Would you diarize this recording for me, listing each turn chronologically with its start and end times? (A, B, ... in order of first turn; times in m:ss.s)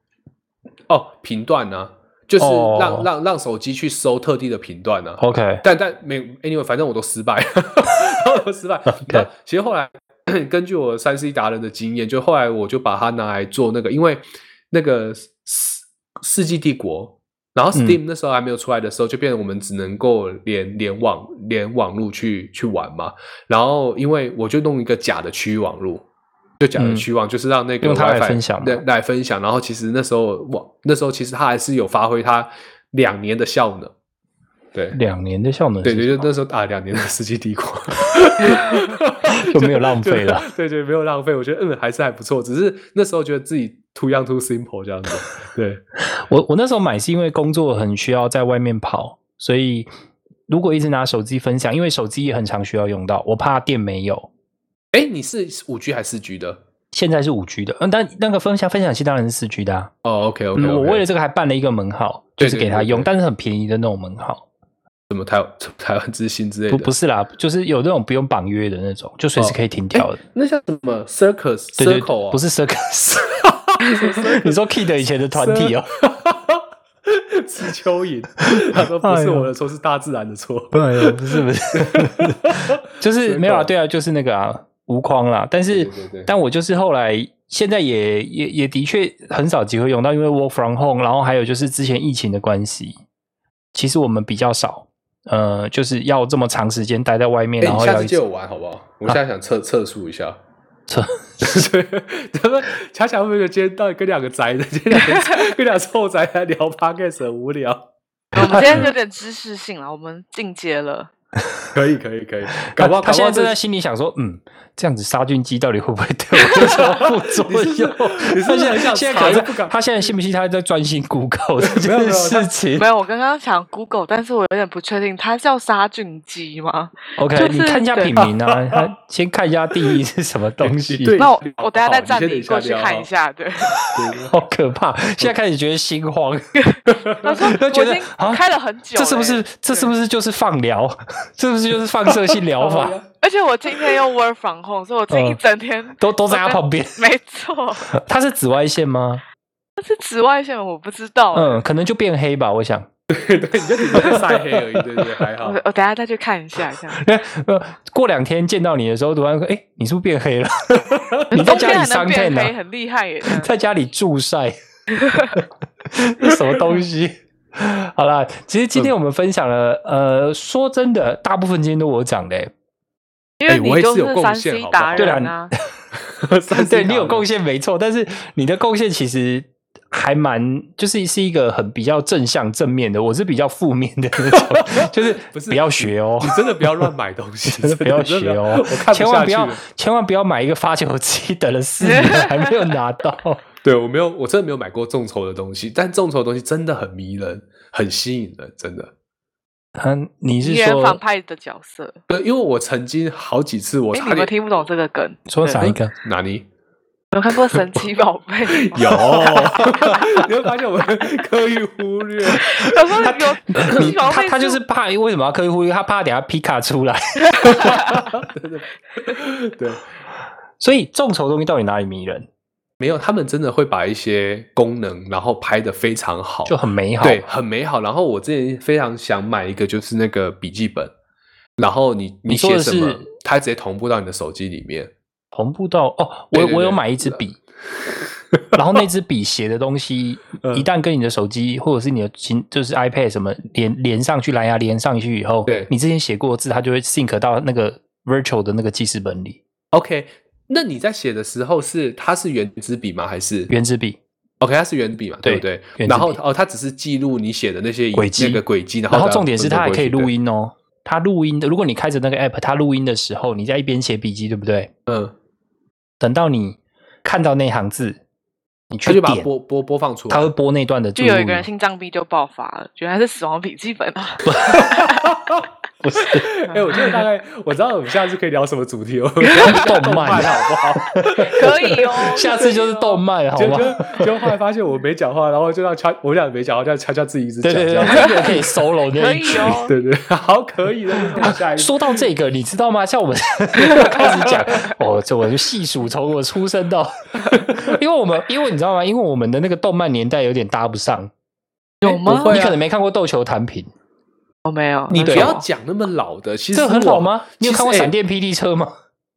0:00.9-0:26.0 A
0:02.4-0:03.1 B
0:05.2-0:05.6 B
0:08.9-0:09.3 B
0:26.6-0:33.9 A
0:26.8-0:27.1 B
0:27.8-0:28.8 B
0:34.9-0:36.2 B
0:35.8-0:45.8 A
0:39.4-0:40.5 B
0:46.1-0:49.9 B
0:50.5-0:54.3 B
0:54.9-0:56.6 A
0:56.9-0:59.9 B
1:00.0-1:01.0 A
1:00.5-1:04.4 B
1:02.4-1:03.1 A
1:05.1-1:06.9 A
1:06.7-1:10.2 B
1:09.4-1:12.4 A
1:11.8-1:13.4 B
1:13.4-1:14.6 A
1:14.2-1:15.9 B
1:15.3-1:23.7 A
1:18.5-1:19.5 B
1:20.7-1:33.0 B
1:25.7-1:26.3 A
1:33.7-1:38.2 B
1:37.6-1:40.4 A
1:40.9-1:41.6 B
1:41.4-1:47.9 A
1:45.0-1:45.5 C
1:48.3-1:51.1 C
1:48.3-1:48.9 B
1:48.5-1:48.9 A
1:51.7-1:53.6 A
1:52.7-2:02.9 B
1:56.4-1:59.8 A
2:01.6-2:02.5 A
2:02.8-2:08.3 C
2:07.2-2:11.2 B
2:10.6-2:13.1 A
2:11.2-2:13.8 C
2:13.8-2:16.5 B
2:13.9-2:14.4 A
2:16.5-2:19.9 C
2:17.2-2:18.4 B
2:18.9-2:23.0 B
2:22.6-2:27.9 C
2:25.1-2:25.4 B
2:26.0-2:27.0 B
2:27.9-2:29.2 B
2:29.8-2:31.6 C
2:31.3-2:32.9 B
2:33.1-2:35.6 A
2:33.9-2:34.3 C
2:35.4-2:37.0 C
2:36.9-2:42.5 B
2:41.3-2:43.5 C
2:43.2-2:44.6 B
2:45.0-2:45.4 C
2:45.9-2:52.5 B
2:53.4-2:55.5 C
2:53.5-2:55.2 A
2:55.0-2:55.5 B
2:56.0-2:57.2 A
2:56.5-3:06.9 B
3:04.3-3:09.6 A
3:07.5-3:13.4 B
3:11.8-3:12.5 C
3:13.6-3:18.9 A
3:19.8-3:21.0 B
3:20.4-3:22.0 C
3:22.1-3:24.3 A
3:23.9-3:25.7 C
3:25.3-3:25.9 B
3:25.6-3:26.4 A
3:27.1-3:30.2 C
3:28.6-3:32.6 A
3:29.1-3:29.7 B
3:32.4-3:38.1 B
3:32.4-3:34.6 C
3:33.6-3:33.9 A
3:37.6-3:37.8 C
3:37.9-3:39.8 A
3:40.6-3:42.3 B
3:42.8-3:50.9 A
3:46.4-3:47.2 B
3:51.6-3:54.9 A
3:52.3-3:53.1 B
3:55.3-3:57.4 B
3:56.3-3:57.2 A
3:58.5-4:09.4 B
4:00.4-4:00.7 A
4:09.7-4:13.5 A
4:13.5-4:14.0 B
4:14.4-4:20.1 A
4:15.2-4:16.2 B
4:17.9-4:24.7 B
4:24.8-4:25.1 A
4:26.0-4:28.0 B
4:28.7-4:29.3 B
4:28.9-4:30.3 A
4:30.1-4:31.5 B
4:31.0-4:35.0 C
4:34.3-4:34.7 B
4:34.6-4:35.4 A
4:35.8-4:36.3 B
4:36.0-4:42.4 A
4:39.2-4:39.6 C
4:39.4-4:44.0 B
4:41.2-4:43.0 C
4:43.4-4:48.4 A
4:47.4-4:49.6 B
4:47.9-4:48.4 C
4:48.9-4:49.7 C
4:49.4-4:52.1 A
4:51.2-5:01.1 B
4:53.7-4:54.7 A
4:57.4-4:57.8 A
5:01.8-5:02.4 C
5:01.8-5:02.6 A
5:02.2-5:03.7 B
5:04.4-5:05.4 C
5:04.9-5:07.9 A
5:04.9-5:05.3 B
5:06.5-5:08.7 B